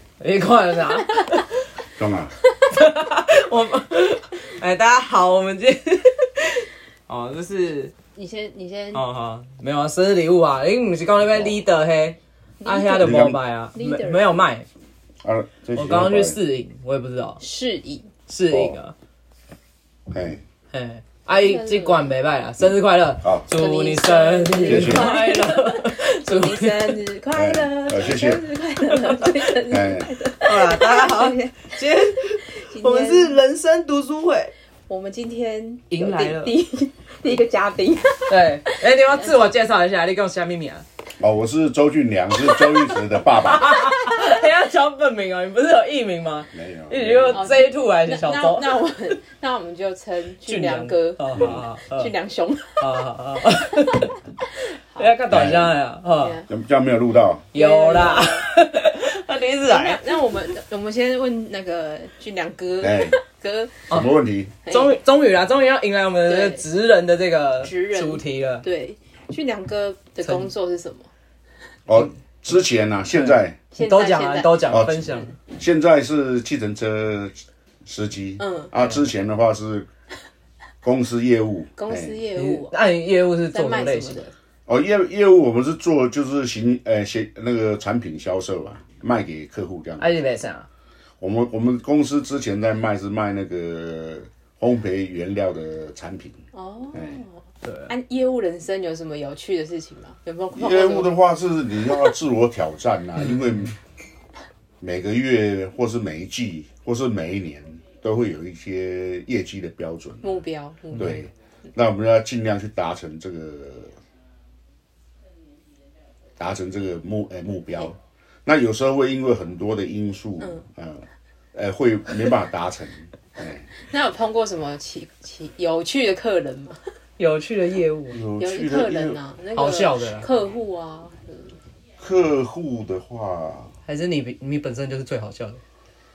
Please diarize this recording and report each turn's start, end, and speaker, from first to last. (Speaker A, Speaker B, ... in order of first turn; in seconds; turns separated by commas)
Speaker A: 0.2-1.5, Speaker B: 2.0-2.3, Speaker A: 2.7-7.9, Speaker C: 8.2-9.0, Speaker A: 8.9-14.7, Speaker C: 12.6-14.4, Speaker B: 13.0-13.4, Speaker B: 15.2-16.4, Speaker A: 15.7-17.4, Speaker C: 17.4-18.1, Speaker A: 18.3-18.9, Speaker B: 18.5-18.8, Speaker B: 20.1-20.4, Speaker A: 20.7-27.0, Speaker C: 21.3-22.1, Speaker C: 23.5-31.8, Speaker B: 24.7-25.2, Speaker B: 27.4-28.4, Speaker A: 28.8-29.6, Speaker B: 29.7-30.1, Speaker A: 30.4-34.5, Speaker C: 32.5-33.4, Speaker C: 34.9-39.4, Speaker A: 35.9-36.5, Speaker A: 38.3-40.9, Speaker B: 41.2-43.8, Speaker A: 43.2-48.8, Speaker B: 46.5-47.5, Speaker C: 47.3-55.1, Speaker A: 50.5-52.2, Speaker B: 51.4-51.6, Speaker A: 52.8-54.2, Speaker A: 55.0-56.4, Speaker B: 55.3-55.8, Speaker C: 56.2-56.5, Speaker B: 56.5-57.5, Speaker C: 57.5-58.5, Speaker A: 57.5-60.2, Speaker C: 59.7-64.0, Speaker B: 62.8-63.2, Speaker B: 63.9-64.5, Speaker C: 64.7-65.0, Speaker A: 64.7-68.7, Speaker C: 66.2-66.6, Speaker C: 67.6-71.1, Speaker A: 70.2-70.5, Speaker B: 71.9-73.6, Speaker A: 73.1-75.3, Speaker C: 73.7-75.3, Speaker B: 74.7-79.9, Speaker C: 78.4-78.7, Speaker B: 80.8-82.2, Speaker C: 81.8-82.8, Speaker A: 82.4-84.3, Speaker C: 83.5-84.3, Speaker B: 84.7-90.1, Speaker A: 90.0-90.7, Speaker B: 91.2-96.4, Speaker C: 96.5-101.2, Speaker B: 96.9-97.2, Speaker A: 97.6-97.9, Speaker B: 100.5-103.8, Speaker A: 103.2-103.7, Speaker B: 104.8-110.3, Speaker C: 110.2-111.2, Speaker B: 110.9-114.0, Speaker B: 116.4-123.7, Speaker C: 123.8-126.8, Speaker A: 127.2-128.2, Speaker B: 128.1-129.2, Speaker C: 128.4-131.6, Speaker A: 129.6-130.3, Speaker B: 132.0-133.7, Speaker A: 133.9-135.6